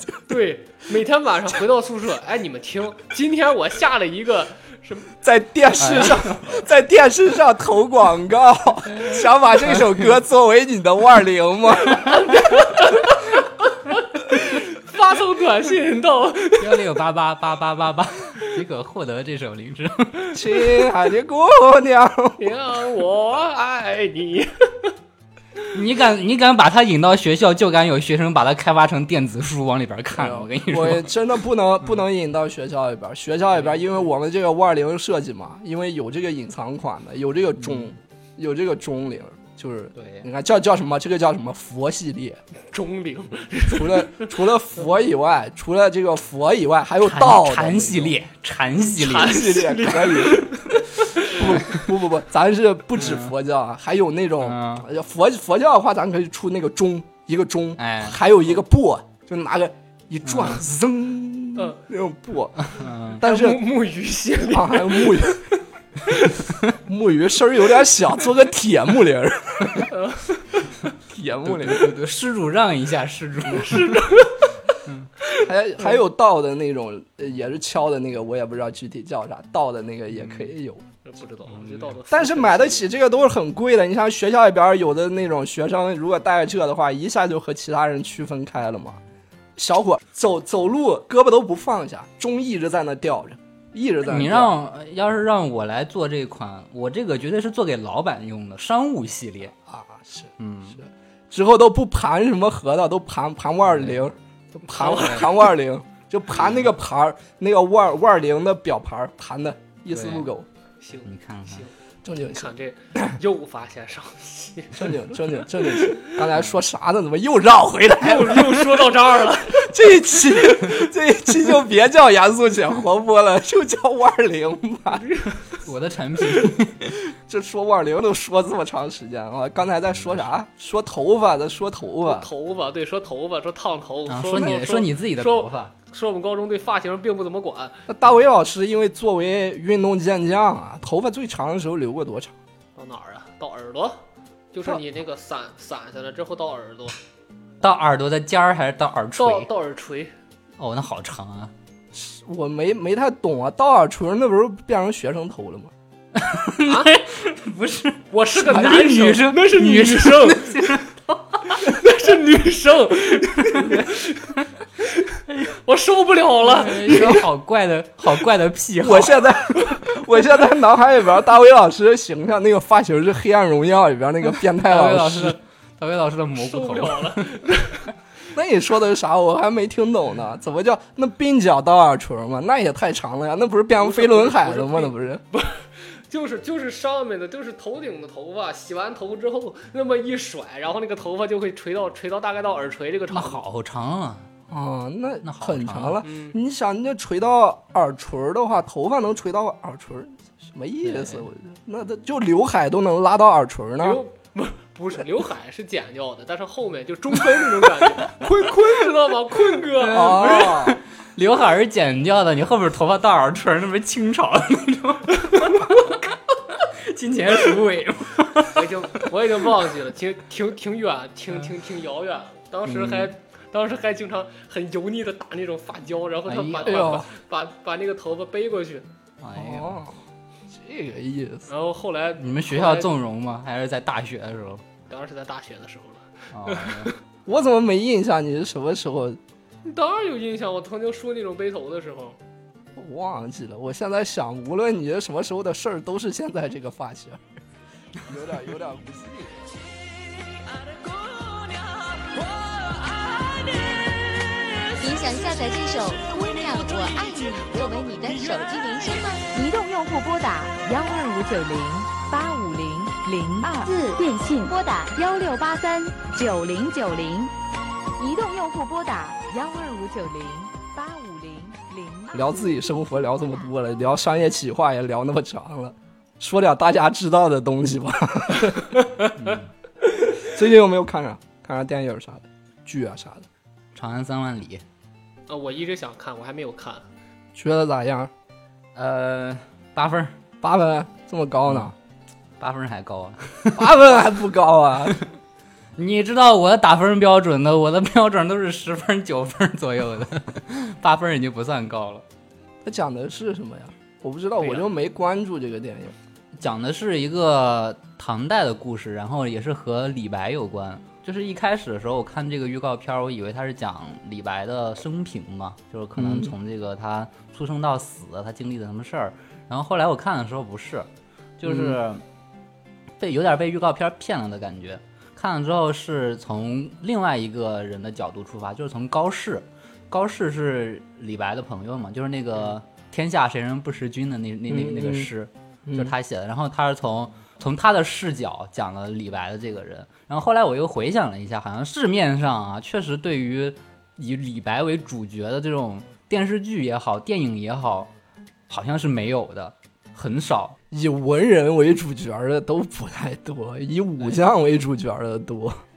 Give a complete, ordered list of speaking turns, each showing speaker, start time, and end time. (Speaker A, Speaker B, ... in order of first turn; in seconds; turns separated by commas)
Speaker A: 0.3-5.1, Speaker B: 5.2-12.2, Speaker C: 5.8-6.5, Speaker A: 12.1-16.8, Speaker C: 16.6-20.3, Speaker B: 20.3-22.4, Speaker A: 22.4-24.9, Speaker C: 25.7-31.1, Speaker B: 30.1-42.4, Speaker C: 37.6-37.9, Speaker C: 39.9-40.3, Speaker A: 42.7-44.3, Speaker B: 43.7-48.1, Speaker C: 47.0-49.4, Speaker A: 48.9-51.6, Speaker B: 49.2-63.6, Speaker C: 53.0-53.3, Speaker C: 54.4-54.9, Speaker C: 57.8-58.2, Speaker C: 60.2-60.6, Speaker C: 62.6-63.2, Speaker A: 63.2-65.4, Speaker B: 64.5-65.4, Speaker A: 66.0-66.4, Speaker B: 66.8-69.9, Speaker A: 69.9-70.5, Speaker B: 71.1-71.9, Speaker C: 71.4-74.2, Speaker A: 73.5-74.5, Speaker A: 75.2-76.0, Speaker B: 75.4-80.8, Speaker C: 80.2-80.5, Speaker A: 81.0-82.9, Speaker C: 81.5-81.9, Speaker B: 82.1-89.0, Speaker B: 89.5-94.5, Speaker C: 94.0-99.5, Speaker B: 99.5-110.5, Speaker C: 100.4-100.8, Speaker C: 103.7-104.0, Speaker A: 104.7-105.4, Speaker C: 104.9-105.2, Speaker C: 109.9-110.3, Speaker A: 110.8-111.7, Speaker C: 111.0-111.6, Speaker B: 112.0-113.1, Speaker A: 112.3-115.0, Speaker B: 114.7-118.9, Speaker A: 118.0-119.7, Speaker B: 119.5-125.1, Speaker A: 125.0-125.4, Speaker C: 125.6-126.9, Speaker B: 127.1-132.3, Speaker A: 132.0-137.8, Speaker C: 134.1-135.7, Speaker B: 134.3-134.6, Speaker B: 137.9-142.3, Speaker A: 142.8-144.0, Speaker A: 144.5-147.0, Speaker C: 147.6-149.5, Speaker A: 149.2-150.1, Speaker C: 150.6-151.5, Speaker B: 151.9-155.7, Speaker C: 156.2-161.7, Speaker A: 156.7-157.0, Speaker A: 158.1-160.8, Speaker A: 161.6-167.2, Speaker B: 163.5-163.8, Speaker C: 166.4-169.2, Speaker B: 168.8-175.4, Speaker C: 174.6-177.3, Speaker A: 176.3-177.8, Speaker B: 178.3-185.2, Speaker A: 183.8-193.4, Speaker C: 193.1-194.3, Speaker B: 194.5-204.0, Speaker C: 195.2-196.0, Speaker A: 196.0-196.3, Speaker C: 200.8-201.2, Speaker A: 203.8-210.7, Speaker B: 208.2-208.7, Speaker C: 209.8-219.1, Speaker B: 209.9-210.8, Speaker A: 215.3-215.6, Speaker A: 218.5-228.9, Speaker C: 222.7-223.1, Speaker C: 226.3-227.0, Speaker B: 226.6-227.1, Speaker C: 229.2-229.8, Speaker B: 229.3-230.0, Speaker B: 230.5-231.5, Speaker A: 231.5-232.9, Speaker C: 232.2-234.6, Speaker A: 234.9-236.9, Speaker C: 236.3-236.9, Speaker B: 237.2-239.2, Speaker A: 239.6-242.2, Speaker B: 242.8-247.2, Speaker B: 248.1-249.5, Speaker D: 254.8-259.3, Speaker E: 259.3-267.3, Speaker E: 268.0-272.4, Speaker B: 272.1-278.8, Speaker C: 279.1-279.5, Speaker B: 279.8-283.2, Speaker C: 283.7-284.6, Speaker A: 285.3-286.9, Speaker B: 287.3-288.1, Speaker C: 288.7-290.1, Speaker B: 290.4-291.7, Speaker C: 291.4-291.7, Speaker C: 292.4-293.8, Speaker B: 293.6-294.9, Speaker C: 295.8-302.0, Speaker B: 302.6-305.9, Speaker A: 304.4-304.7, Speaker C: 306.4-320.9, Speaker B: 315.9-316.3, Speaker C: 321.4-322.0, Speaker B: 321.4-321.8, Speaker C: 323.0-347.9, Speaker B: 334.5-335.1, Speaker B: 335.6-335.9, Speaker C: 348.5-350.6, Speaker B: 350.7-355.6